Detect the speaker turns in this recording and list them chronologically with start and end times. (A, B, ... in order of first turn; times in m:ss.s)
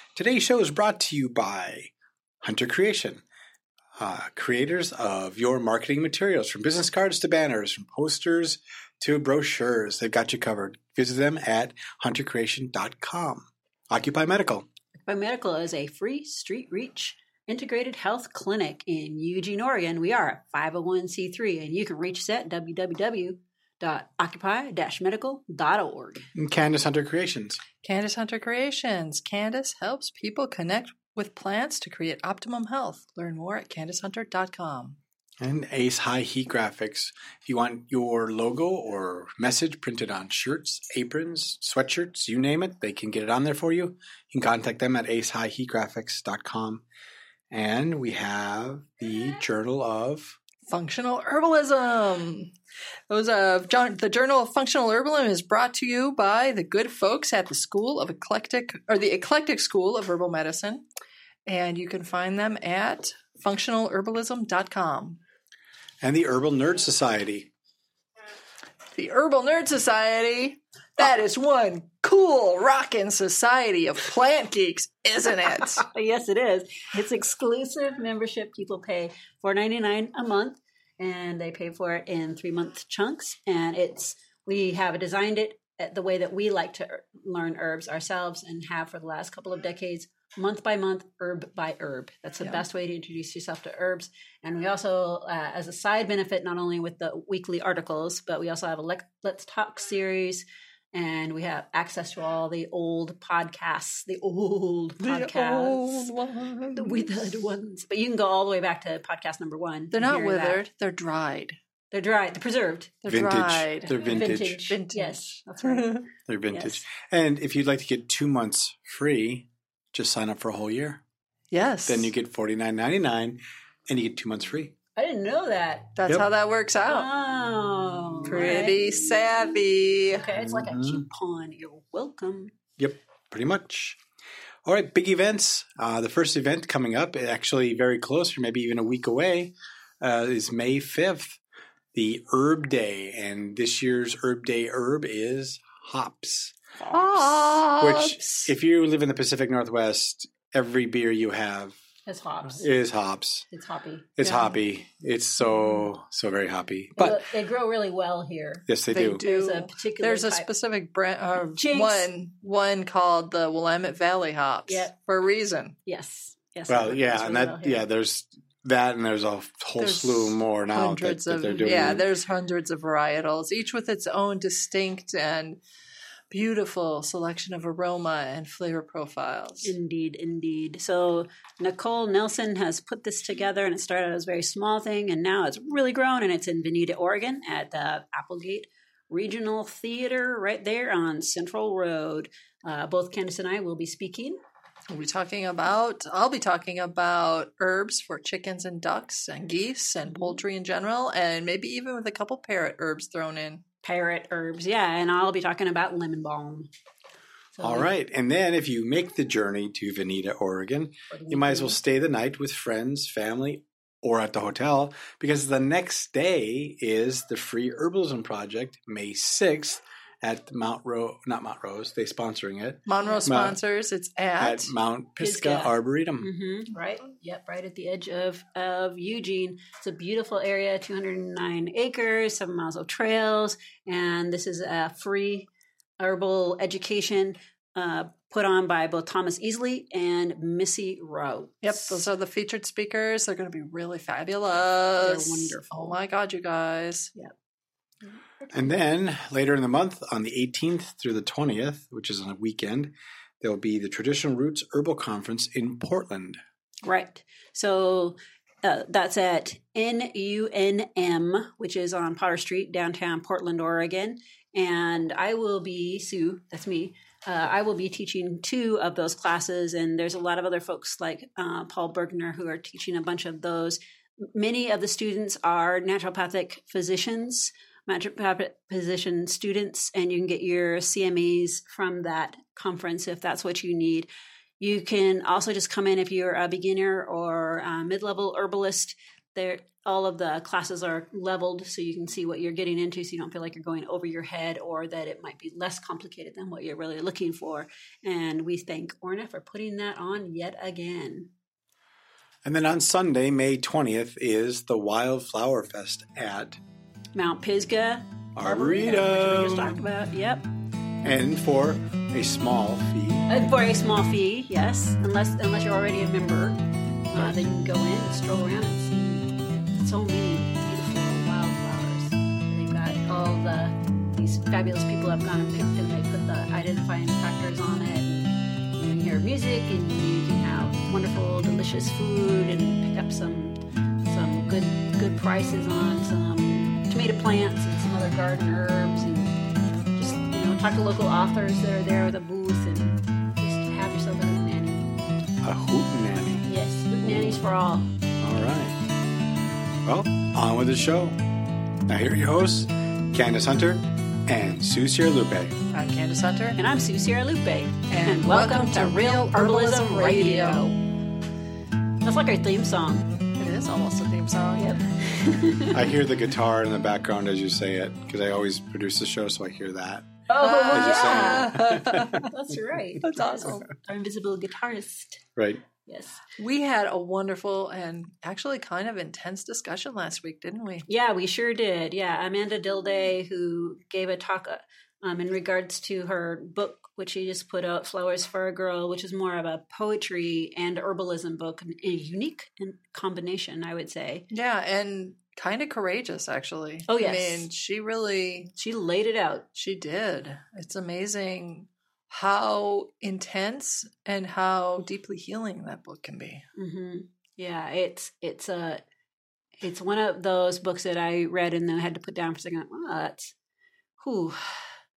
0:00.2-0:03.2 A
0:04.0-0:14.7 A
0:15.1-0:26.3 B
0:26.4-0:27.6 A
0:27.8-0:35.0 C
0:35.4-0:46.8 A
0:47.5-0:50.4 A
0:50.7-0:52.5 C
0:53.1-1:00.8 C
1:01.5-1:05.2 C
1:06.0-1:07.5 A
1:08.9-1:15.8 C
1:15.6-1:46.1 B
1:45.0-1:47.2 C
1:46.8-1:50.7 B
1:49.9-1:51.6 C
1:51.9-1:53.0 B
1:53.0-1:56.1 C
1:53.1-1:54.6 A
1:53.9-1:56.8 B
1:56.3-2:01.0 A
2:01.5-2:02.1 C
2:01.9-2:04.8 A
2:05.0-2:06.0 B
2:06.0-2:07.1 C
2:06.9-2:09.6 B
2:08.3-2:10.3 C
2:10.1-2:12.5 B
2:10.4-2:11.0 A
2:12.8-2:14.0 A
2:14.6-2:21.4 A
2:21.9-2:26.6 A
2:26.8-2:27.3 B
2:26.9-2:28.5 C
2:27.7-2:31.8 A
2:32.1-2:32.7 B
2:32.5-2:33.5 A
2:33.5-2:34.1 B
2:34.2-2:37.2 A
2:34.2-2:34.6 C
2:37.0-2:40.5 B
2:38.7-2:39.2 A
2:38.9-2:45.8 C
2:41.6-2:42.1 B
2:44.7-2:44.9 B
2:45.9-2:47.8 B
2:46.7-2:52.0 A
2:49.8-2:55.6 C
2:51.5-2:52.0 B
2:56.3-2:59.7 C
2:59.6-3:14.4 B
3:14.9-3:23.6 C
3:20.0-3:20.4 B
3:23.8-3:26.7 B
3:27.6-3:27.9 B
3:27.6-3:43.6 A
3:31.1-3:31.8 B
3:42.9-3:44.7 C
3:43.0-3:43.3 B
3:44.4-3:46.3 A
3:45.2-4:02.0 B
4:01.6-4:07.1 C
4:05.0-4:06.0 B
4:08.5-4:16.4 A
4:16.8-4:44.1 B
4:44.6-5:01.3 B
5:02.4-5:06.6 A
5:07.2-5:10.5 B
5:08.4-5:09.9 A
5:11.0-5:13.3 A
5:13.3-5:16.6 B
5:17.1-5:39.4 B
5:40.0-5:44.9 B
5:45.4-5:46.5 A
5:46.4-5:47.9 B
5:48.2-5:48.8 A
5:49.8-5:51.2 A
5:51.9-5:55.6 A
5:55.7-5:56.6 C
5:56.6-6:00.7 B
5:57.9-6:00.8 C
6:02.0-6:03.1 B
6:03.4-6:04.7 C
6:04.6-6:05.8 B
6:05.7-6:12.3 A
6:10.3-6:11.5 B
6:10.4-6:12.3 C
6:12.2-6:15.2 B
6:13.0-6:13.7 C
6:15.4-6:15.6 A
6:15.8-6:16.2 B
6:16.4-6:20.9 C
6:20.9-6:34.3 B
6:34.3-6:38.5 C
6:36.9-6:37.5 B
6:38.6-6:39.5 B
6:39.6-6:46.4 C
6:46.6-6:48.8 B
6:49.6-6:53.3 B
6:54.0-6:54.8 B